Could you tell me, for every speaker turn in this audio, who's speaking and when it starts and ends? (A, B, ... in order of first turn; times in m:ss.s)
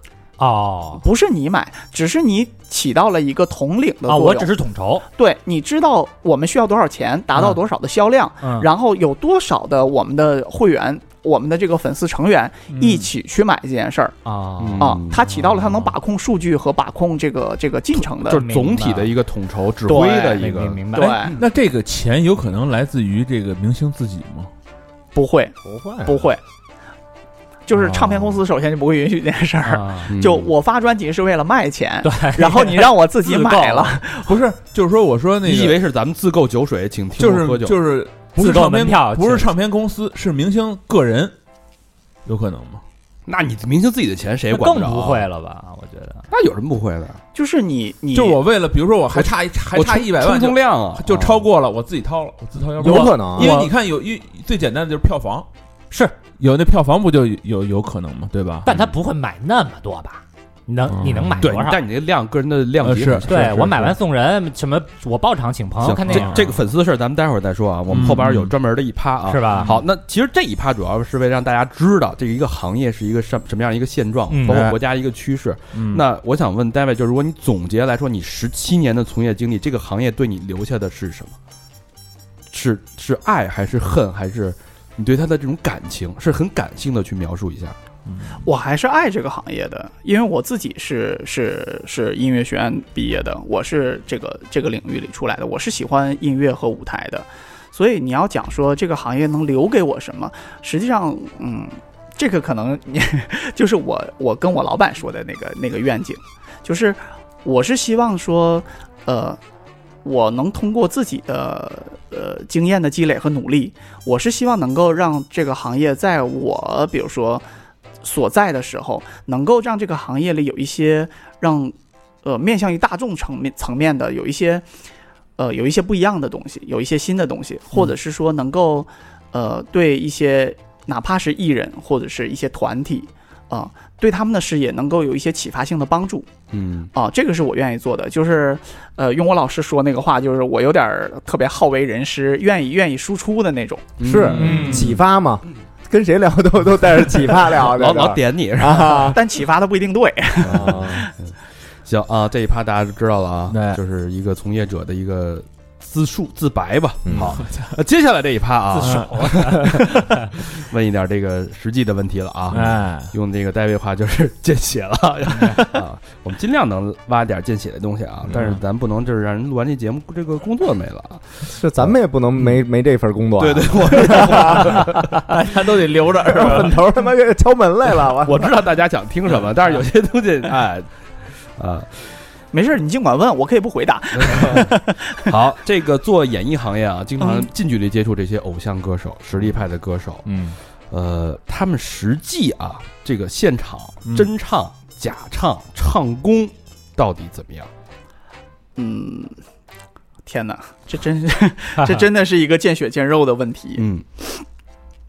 0:00.4-0:01.0 A
0:01.0-0:04.5 B
0:04.1-0:05.0 A
0:05.2-0:14.2 B
0:07.3-0:07.6 A
0:08.4-0:08.7 A
0:12.7-0:13.1 C
0:14.2-0:15.0 A
0:14.6-0:15.3 D
0:14.8-0:18.4 B
0:15.5-0:15.8 A
0:18.2-0:19.1 A
0:18.2-0:21.4 D
0:19.9-0:21.3 A
0:19.9-0:21.4 B
0:21.0-0:24.5 C
0:25.1-0:26.4 B
0:25.6-0:26.3 E
0:27.7-0:34.4 B
0:27.8-0:28.4 A
0:29.6-0:30.1 A
0:30.1-0:30.5 D
0:32.0-0:34.0 A
0:34.2-0:35.8 C
0:35.4-0:37.8 D
0:37.2-0:41.3 C
0:38.3-0:39.5 A
0:42.2-0:42.8 C
0:43.3-0:45.2 D
0:44.5-0:46.2 A
0:46.3-0:47.2 D
0:47.3-0:48.4 B
0:48.1-0:55.5 C
0:49.1-0:51.4 D
0:52.8-0:53.5 E
0:52.8-0:53.7 A
0:56.4-0:58.8 C
0:58.6-1:01.8 A
1:00.9-1:01.4 C
1:01.4-1:03.5 D
1:02.8-1:03.9 C
1:03.3-1:06.3 A
1:05.8-1:21.3 D
1:06.1-1:06.6 C
1:07.9-1:08.5 C
1:09.3-1:09.8 A
1:09.5-1:09.8 C
1:14.3-1:14.6 A
1:14.4-1:14.8 C
1:15.7-1:16.0 C
1:22.5-1:27.8 D
1:28.1-1:28.4 C
1:28.4-1:49.4 B
1:50.0-1:57.4 B
1:58.0-2:04.6 B
2:05.4-2:16.3 B
2:16.5-2:16.9 D
2:16.9-2:24.0 B
2:24.0-2:24.7 D
2:24.0-2:29.2 E
2:24.1-2:25.0 C
2:24.3-2:25.0 A
2:27.5-2:29.1 D
2:29.1-2:31.1 B
2:30.4-2:31.3 D
2:30.4-2:31.1 E
2:31.8-2:39.9 D
2:33.5-2:33.8 C
2:37.0-2:37.4 E
2:37.1-2:37.7 C
2:38.7-2:40.0 A
2:38.8-2:39.4 C
2:40.4-2:51.9 D
2:42.5-2:43.1 C
2:48.3-2:48.6 C
2:51.5-2:54.9 E
2:53.4-2:55.0 D
2:55.2-2:56.8 C
2:56.2-2:58.5 E
2:58.2-3:00.9 D
3:01.6-3:01.9 D
3:02.5-3:05.3 B
3:04.2-3:04.7 D
3:05.2-3:10.2 D
3:07.2-3:07.5 B
3:10.2-3:10.6 A
3:10.9-3:17.7 D
3:14.0-3:14.3 C
3:18.8-3:19.4 B
3:20.2-3:24.4 B
3:21.8-3:22.0 A
3:23.8-3:24.0 D